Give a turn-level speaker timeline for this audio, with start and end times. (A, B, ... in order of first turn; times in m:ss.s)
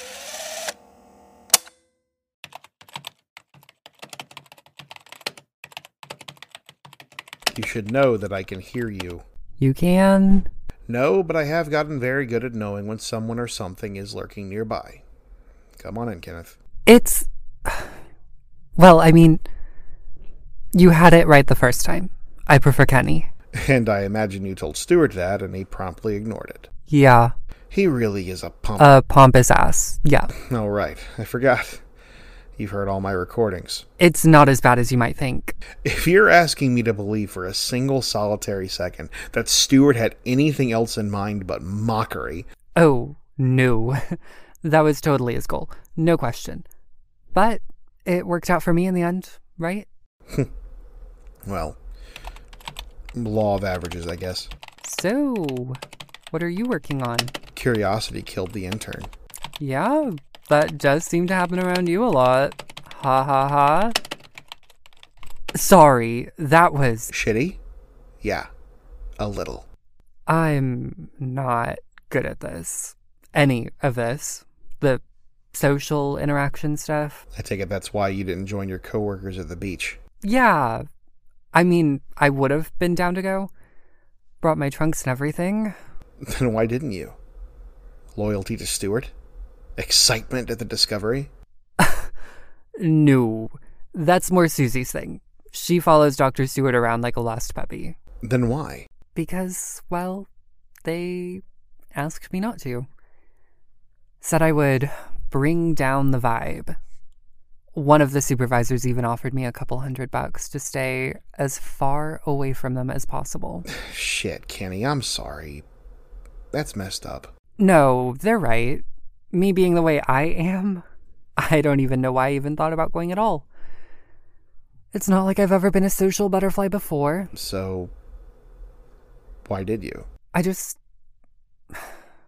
0:07.5-0:09.2 A
0:09.6-0:10.5 B
0:10.9-0:15.0 A
0:15.8-0:16.6 A
0:16.8-0:17.9 B
0:18.8-0:19.4 B
0:20.7-0:23.3 B
0:23.6-0:26.7 A
0:26.9-0:27.3 B
0:27.7-0:29.0 A
0:28.8-0:30.3 B
0:30.5-0:31.8 A
0:32.6-0:33.8 A
0:34.0-0:35.6 B
0:35.8-0:42.5 A
0:42.8-0:46.6 B
0:47.3-0:49.8 B
0:51.4-0:51.8 A
0:53.2-0:54.5 A
0:54.8-0:55.8 B
0:56.3-0:57.3 B
0:57.5-0:59.1 A
0:59.6-1:04.0 B
1:05.5-1:07.1 B
1:07.1-1:07.6 A
1:08.2-1:08.5 A
1:09.2-1:09.6 A
1:10.3-1:15.0 B
1:15.5-1:17.2 B
1:17.3-1:20.0 A
1:20.2-1:20.8 B
1:21.5-1:23.5 B
1:24.4-1:25.7 B
1:26.2-1:27.2 A
1:28.1-1:29.1 A
1:29.8-1:31.3 A
1:31.8-1:32.1 B
1:32.8-1:37.9 B
1:38.2-1:38.9 A
1:39.1-1:40.3 B
1:40.8-1:41.4 B
1:41.9-1:42.9 B
1:44.2-1:46.8 B
1:47.7-1:53.6 B
1:53.7-1:55.6 A
1:56.5-1:57.3 A
1:57.6-2:00.8 B
2:01.4-2:03.5 B
2:04.9-2:07.3 B
2:07.3-2:07.9 A
2:09.4-2:10.1 A
2:10.3-2:10.8 B